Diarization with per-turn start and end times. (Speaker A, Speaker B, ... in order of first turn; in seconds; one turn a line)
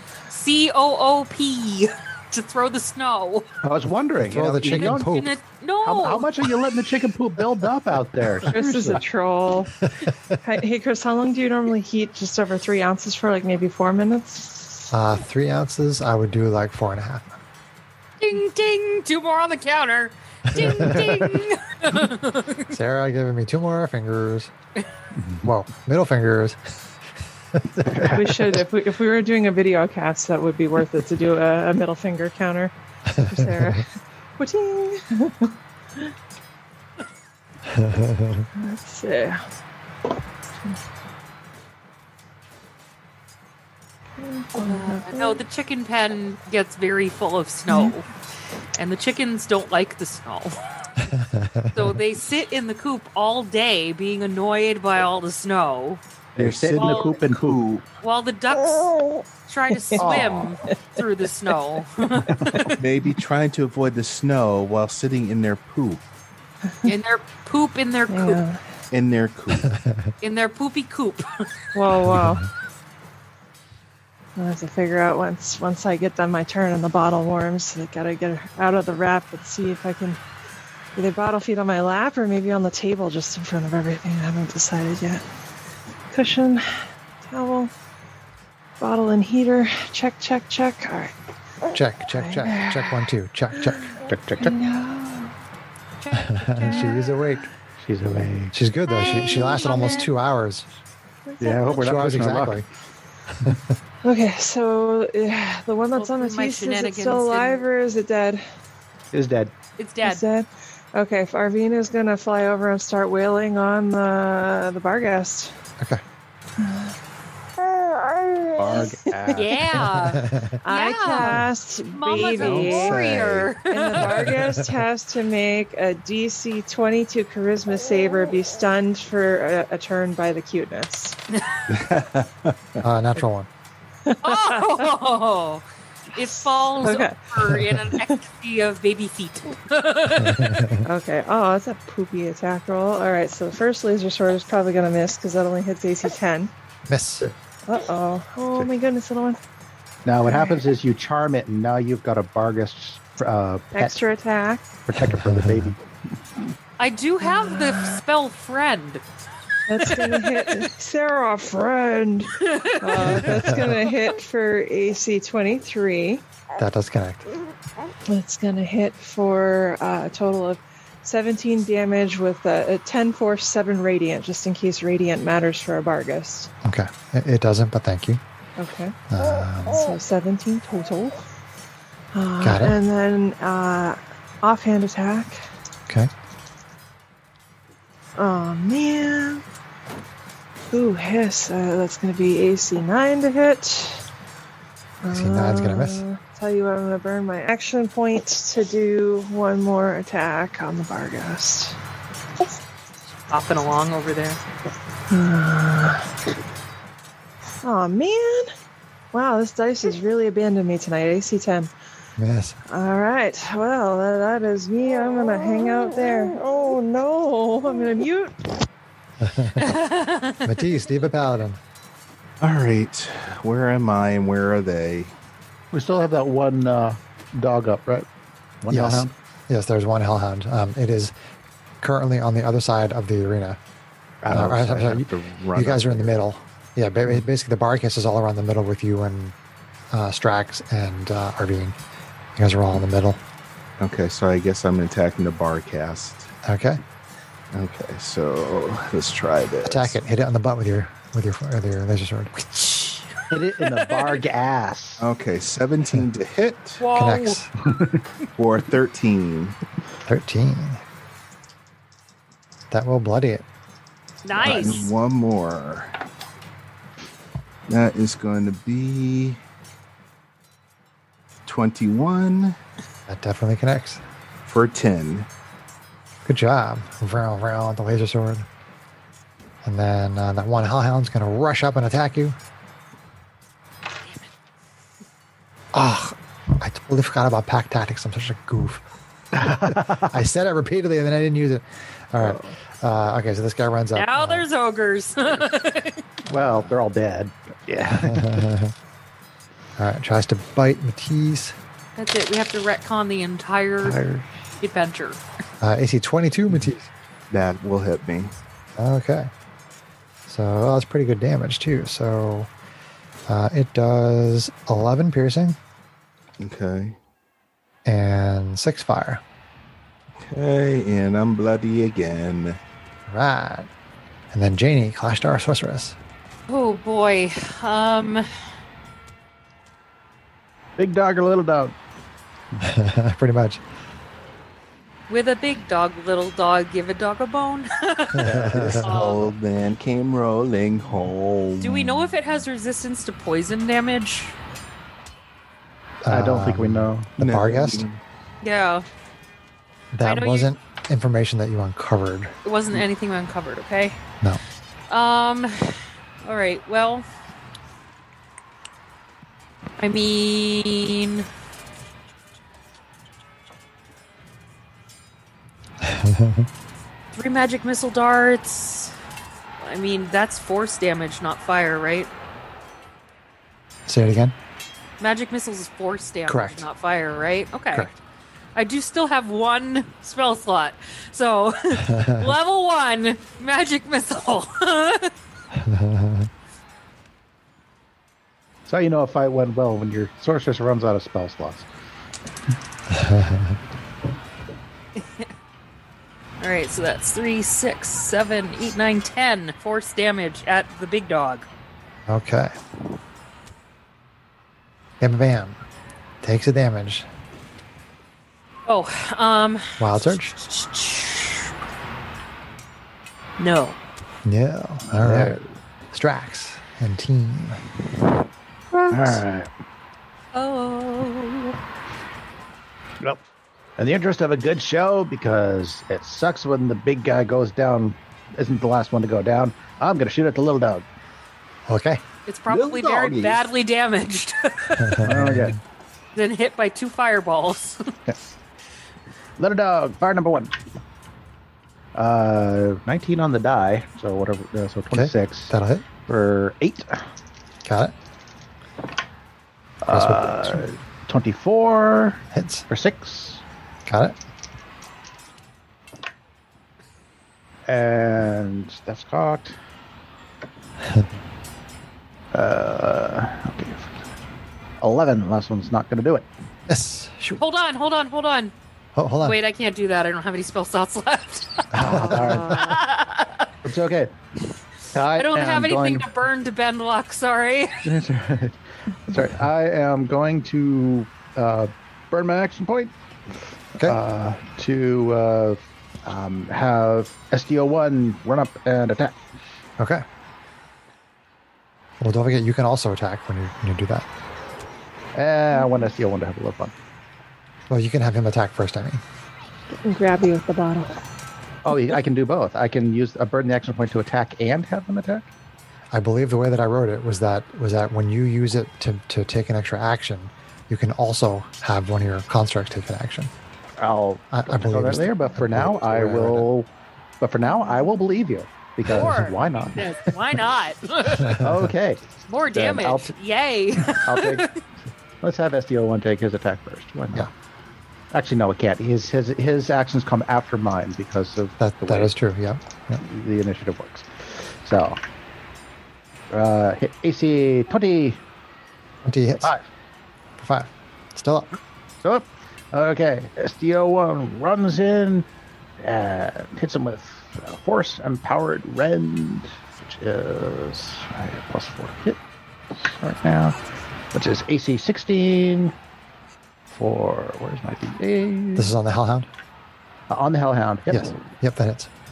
Speaker A: 0.3-3.5
Speaker B: 3.6-5.1
Speaker C: 4.2-5.3
Speaker A: 4.7-6.3
Speaker B: 5.8-9.0
Speaker D: 8.5-9.7
Speaker C: 9.8-10.4
Speaker D: 10.4-14.9
Speaker C: 14.9-17.4
Speaker A: 18.2-22.7
Speaker C: 20.5-21.4
Speaker C: 22.7-24.5
Speaker C: 25.4-26.6
Speaker C: 27.5-28.2
Speaker B: 27.9-28.6
Speaker D: 28.1-36.1
Speaker C: 33.1-33.8
Speaker C: 37.7-38.5
Speaker D: 38.6-39.4
Speaker D: 44.2-45.4
Speaker A: 44.6-48.1
Speaker D: 47.7-48.0
Speaker A: 48.8-50.6
Speaker C: 51.1-51.9
Speaker A: 51.7-56.0
Speaker E: 56.4-57.9
Speaker B: 56.4-57.6
Speaker A: 56.8-57.2
Speaker A: 58.0-62.8
Speaker D: 59.7-60.1
Speaker B: 60.0-60.5
Speaker B: 62.4-62.7
Speaker E: 62.8-66.0
Speaker A: 66.8-68.4
Speaker D: 68.1-68.6
Speaker E: 68.9-69.8
Speaker C: 69.7-70.1
Speaker A: 70.2-71.5
Speaker D: 71.7-72.4
Speaker C: 72.1-72.5
Speaker D: 74.4-80.2
Speaker D: 81.0-85.2
Speaker D: 86.1-87.7
Speaker D: 88.8-91.1
Speaker C: 91.7-94.0
Speaker D: 92.2-93.0
Speaker D: 93.7-95.3
Speaker B: 94.0-94.6
Speaker A: 96.0-97.0
Speaker C: 96.1-97.5
Speaker D: 96.7-97.0
Speaker B: 97.8-98.5
Speaker C: 98.5-100.7
Speaker A: 98.9-100.1
Speaker D: 99.0-100.0
Speaker D: 101.3-101.7
Speaker B: 101.4-102.6
Speaker C: 101.7-102.7
Speaker D: 104.0-108.4
Speaker A: 106.0-107.6
Speaker B: 109.1-109.5
Speaker A: 109.8-110.2
Speaker D: 110.0-115.5
Speaker D: 116.6-117.0
Speaker B: 118.6-119.9
Speaker D: 118.7-119.4
Speaker A: 119.3-124.3
Speaker C: 119.9-120.6
Speaker D: 120.6-123.0
Speaker E: 122.3-123.4
Speaker B: 122.4-123.3
Speaker D: 123.7-131.2
Speaker C: 124.0-124.8
Speaker A: 131.3-131.6
Speaker B: 131.7-132.5
Speaker C: 132.8-133.5
Speaker D: 134.1-134.9
Speaker A: 134.2-135.6
Speaker A: 136.2-140.6
Speaker D: 136.2-138.2
Speaker C: 140.2-140.8
Speaker D: 140.8-146.5
Speaker C: 146.9-147.3
Speaker D: 147.7-149.4
Speaker B: 150.1-154.0
Speaker D: 150.3-150.6
Speaker D: 153.8-154.7
Speaker B: 154.9-155.8
Speaker C: 155.0-155.7
Speaker A: 156.8-159.0
Speaker D: 157.2-158.0
Speaker D: 159.7-166.2
Speaker A: 159.8-160.7
Speaker A: 162.4-163.4
Speaker C: 163.0-163.8
Speaker C: 166.6-167.3
Speaker D: 168.1-176.5
Speaker C: 176.6-178.2
Speaker D: 178.6-179.0
Speaker C: 179.1-179.9
Speaker D: 179.7-181.2
Speaker D: 182.1-185.4
Speaker C: 182.4-182.8
Speaker D: 188.2-189.4
Speaker D: 190.7-194.1
Speaker D: 195.0-201.8
Speaker C: 195.1-196.0
Speaker A: 203.3-204.4
Speaker D: 205.1-206.1
Speaker D: 207.6-208.5
Speaker D: 209.1-211.7
Speaker C: 212.2-212.6
Speaker D: 212.7-218.7
Speaker C: 219.2-219.8
Speaker A: 219.6-220.6
Speaker C: 220.4-221.6
Speaker E: 222.4-225.1
Speaker B: 225.7-228.1
Speaker B: 228.6-229.1
Speaker C: 228.7-231.1
Speaker C: 231.8-233.6
Speaker B: 234.2-234.6
Speaker E: 234.3-236.2
Speaker C: 234.3-239.3
Speaker C: 239.9-241.8
Speaker C: 242.4-243.2
Speaker E: 243.8-246.3
Speaker C: 246.4-246.8
Speaker E: 247.5-250.0
Speaker C: 249.7-252.3
Speaker A: 252.4-254.2
Speaker B: 253.3-255.1
Speaker E: 255.0-256.8
Speaker A: 256.8-257.4
Speaker C: 256.9-257.5
Speaker E: 258.4-259.6
Speaker C: 260.1-260.8
Speaker C: 262.7-263.4
Speaker A: 264.2-264.9
Speaker E: 264.4-266.0
Speaker E: 267.7-269.4
Speaker E: 271.5-272.6
Speaker C: 273.1-274.0
Speaker E: 274.4-275.3
Speaker C: 276.3-278.5
Speaker C: 279.6-282.4
Speaker C: 285.7-288.8
Speaker B: 289.3-290.1
Speaker C: 289.5-294.5
Speaker B: 292.2-292.5
Speaker A: 293.9-296.0
Speaker B: 296.3-298.5
Speaker C: 297.9-298.7
Speaker C: 299.8-301.6
Speaker A: 302.0-304.0
Speaker B: 303.8-304.3
Speaker A: 304.6-305.2
Speaker C: 305.6-306.9
Speaker E: 307.3-308.3
Speaker C: 308.8-309.3
Speaker C: 310.3-312.5
Speaker C: 313.3-315.6
Speaker E: 316.4-317.0
Speaker C: 317.9-319.2
Speaker E: 320.3-322.6
Speaker C: 323.1-323.7
Speaker C: 324.3-326.0
Speaker A: 326.5-328.3
Speaker B: 330.8-331.8
Speaker C: 332.6-333.6
Speaker A: 335.1-338.3
Speaker C: 338.2-338.9
Speaker B: 338.2-339.0
Speaker E: 338.4-342.0
Speaker A: 338.8-339.3
Speaker A: 341.6-344.4
Speaker C: 346.0-347.9
Speaker B: 346.1-347.4
Speaker E: 347.2-348.0
Speaker A: 348.4-348.9
Speaker C: 349.9-352.8
Speaker A: 350.0-350.5
Speaker A: 352.4-354.0
Speaker A: 354.9-357.1
Speaker A: 359.8-361.3
Speaker C: 365.8-366.5
Speaker A: 367.2-368.9
Speaker A: 369.6-372.1
Speaker C: 373.9-374.4
Speaker A: 375.0-377.9
Speaker C: 376.3-376.6
Speaker C: 377.7-378.0
Speaker A: 378.6-385.1
Speaker C: 381.9-382.3
Speaker C: 385.5-386.3
Speaker B: 388.7-391.7
Speaker C: 392.9-393.6
Speaker A: 395.0-395.3
Speaker A: 396.4-401.5
Speaker C: 402.1-402.5
Speaker C: 405.0-405.6
Speaker C: 406.2-407.1
Speaker A: 408.7-409.8
Speaker C: 409.8-410.4
Speaker A: 410.4-411.5
Speaker A: 413.4-413.8
Speaker C: 414.2-415.4
Speaker B: 415.0-415.4
Speaker C: 415.9-417.6
Speaker A: 418.7-419.2
Speaker B: 418.9-419.5
Speaker A: 420.3-421.6
Speaker B: 423.8-430.9
Speaker C: 431.7-432.0
Speaker A: 432.3-435.0
Speaker E: 432.5-433.4
Speaker C: 434.8-435.6
Speaker B: 435.0-435.6
Speaker A: 436.1-437.9
Speaker B: 439.4-440.5
Speaker B: 441.9-447.0
Speaker C: 444.9-445.9
Speaker C: 447.6-447.9
Speaker B: 449.8-453.4
Speaker C: 449.9-450.6
Speaker C: 452.3-452.7
Speaker C: 453.9-454.2
Speaker B: 457.7-459.6
Speaker C: 460.8-461.1
Speaker B: 462.3-464.0
Speaker B: 464.8-466.3
Speaker C: 466.7-467.4
Speaker A: 467.4-468.5
Speaker C: 468.9-469.4
Speaker A: 469.2-473.5
Speaker B: 471.7-472.8
Speaker C: 471.8-472.4
Speaker D: 471.8-472.8
Speaker B: 473.6-474.1
Speaker B: 474.9-476.1
Speaker A: 475.2-477.8
Speaker B: 477.9-482.9
Speaker B: 483.8-489.2
Speaker C: 489.8-490.0
Speaker C: 492.0-494.1
Speaker B: 495.1-496.7
Speaker C: 497.7-499.0
Speaker D: 499.7-501.0
Speaker B: 501.6-505.3
Speaker C: 505.9-513.3
Speaker B: 513.8-516.7
Speaker C: 514.3-516.5
Speaker B: 517.2-520.1
Speaker D: 517.5-517.9
Speaker A: 518.9-521.4
Speaker C: 521.2-521.7
Speaker B: 521.3-523.1
Speaker A: 522.3-524.6
Speaker B: 523.8-524.6
Speaker B: 525.2-527.3
Speaker B: 528.1-532.1
Speaker C: 531.6-533.0
Speaker B: 533.0-535.0
Speaker B: 536.3-538.2
Speaker C: 539.0-539.6
Speaker C: 540.4-541.5
Speaker B: 542.0-545.3
Speaker B: 545.8-552.2
Speaker B: 552.7-553.6
Speaker B: 554.1-555.7
Speaker B: 556.7-558.7
Speaker C: 558.6-559.3
Speaker B: 560.1-561.1
Speaker C: 560.9-561.9